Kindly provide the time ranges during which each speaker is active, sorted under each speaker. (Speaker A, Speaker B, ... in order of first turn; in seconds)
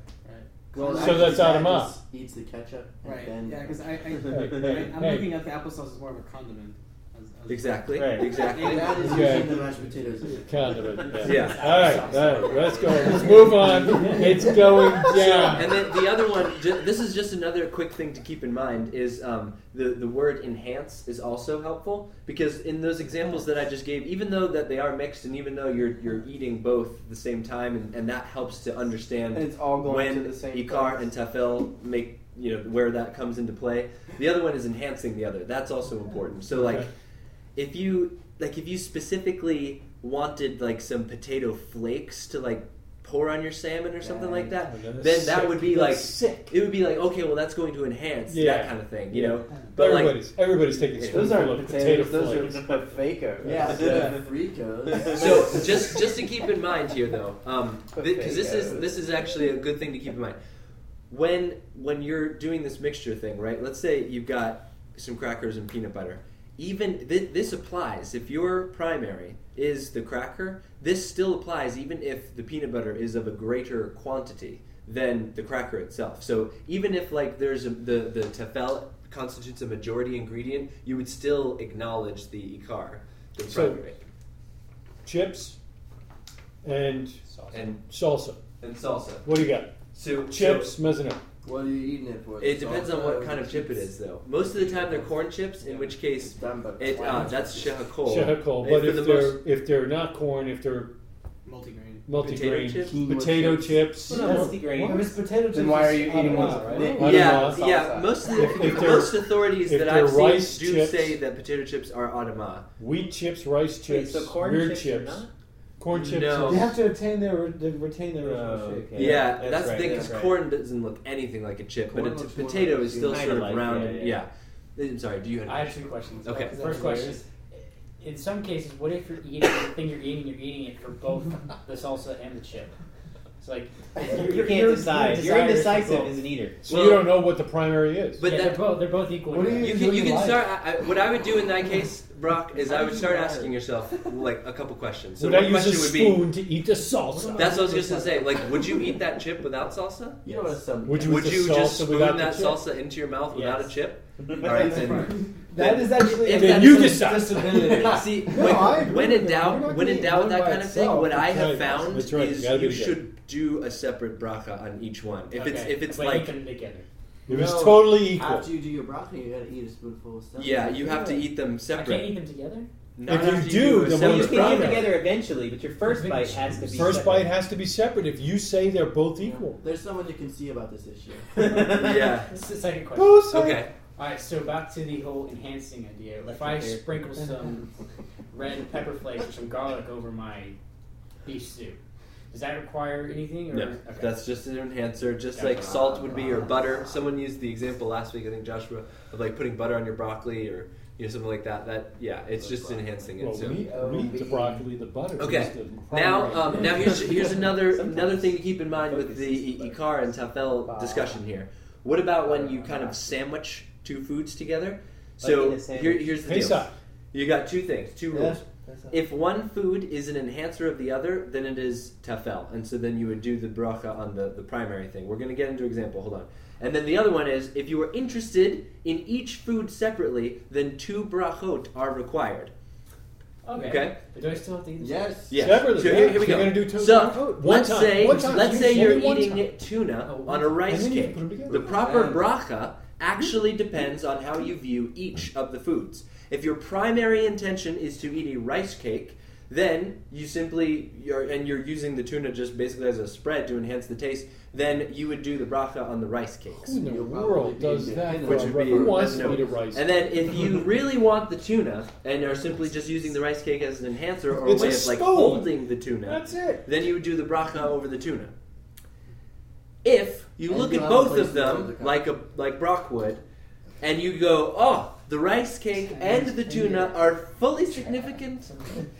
Speaker A: 0.7-1.6, 29.3-31.1, 44.0-44.5, 51.0-54.2, 58.0-58.8, 105.5-108.3, 142.8-143.1, 150.3-150.6, 203.7-204.6, 210.7-211.2, 212.6-212.9, 218.2-218.8, 241.8-242.2
Speaker B: 0.7-3.8, 8.5-10.8, 53.4-56.0, 91.4-93.9, 96.2-97.6, 102.8-104.0, 119.8-120.0, 121.9-123.5, 150.2-151.2, 167.3-171.1, 179.2-181.3, 202.4-203.0, 203.9-204.2, 234.8-235.3, 241.6-242.0, 256.8-259.4, 270.4-272.1
Speaker C: 1.0-2.0, 4.3-5.3, 9.0-9.6, 10.2-15.8, 36.5-36.9, 44.6-46.6, 48.3-52.6, 53.4-53.9, 83.4-83.8, 85.0-85.6, 86.6-87.2, 87.8-88.4, 89.2-89.7, 90.3-91.2, 98.0-100.9, 102.0-104.9, 106.4-107.6, 108.3-111.2, 112.8-115.2, 115.8-116.7, 136.6-138.2, 145.2-147.7, 150.8-152.6, 156.2-157.7, 161.2-163.0, 167.3-168.5, 173.1-174.9, 176.7-179.6, 182.9-183.6, 203.2-207.0, 216.2-216.7, 235.4-239.4, 240.6-241.6, 256.6-259.9, 264.4-266.6
Speaker D: 3.0-9.9, 101.4-102.0, 154.4-155.2
Speaker E: 4.6-4.9, 7.9-8.4, 104.0-105.2, 107.0-107.3, 113.8-115.3, 118.2-120.4, 123.0-124.2, 134.2-136.6, 153.3-153.7, 154.2-154.6, 173.9-177.3, 181.3-182.1, 207.1-208.3, 208.9-209.7, 215.2-216.1
Speaker F: 7.5-9.2, 11.2-12.1, 15.0-36.9, 37.5-50.3, 51.0-51.5, 55.1-60.4, 61.1-84.0, 87.5-87.8, 88.6-89.3, 89.9-90.8, 92.4-99.4, 102.1-103.0, 107.0-112.7, 115.9-116.7, 118.9-126.5, 136.7-137.2, 138.2-138.7, 139.6-146.3, 147.3-150.2, 151.0-166.3, 170.4-172.2, 172.9-174.9, 181.5-182.3, 183.3-183.7, 193.5-203.7, 205.2-232.5, 233.6-234.0, 235.3-256.8, 258.1-268.3, 269.8-273.2, 273.8-278.5
Speaker G: 11.2-14.2, 87.2-87.7, 96.8-97.6, 125.5-127.2, 128.0-132.7, 133.4-136.2, 138.2-139.8, 165.3-166.9, 171.7-172.7, 175.9-176.5, 182.3-183.3, 183.9-187.7, 188.3-190.6, 191.2-191.8, 192.3-194.4, 195.3-196.4, 233.4-235.2, 238.0-239.2, 240.0-240.6, 275.9-276.9, 277.7-278.8
Speaker H: 13.3-14.5, 104.2-107.0, 116.4-119.4, 126.3-127.2, 139.3-140.5, 147.1-148.2, 155.5-161.3, 187.1-187.6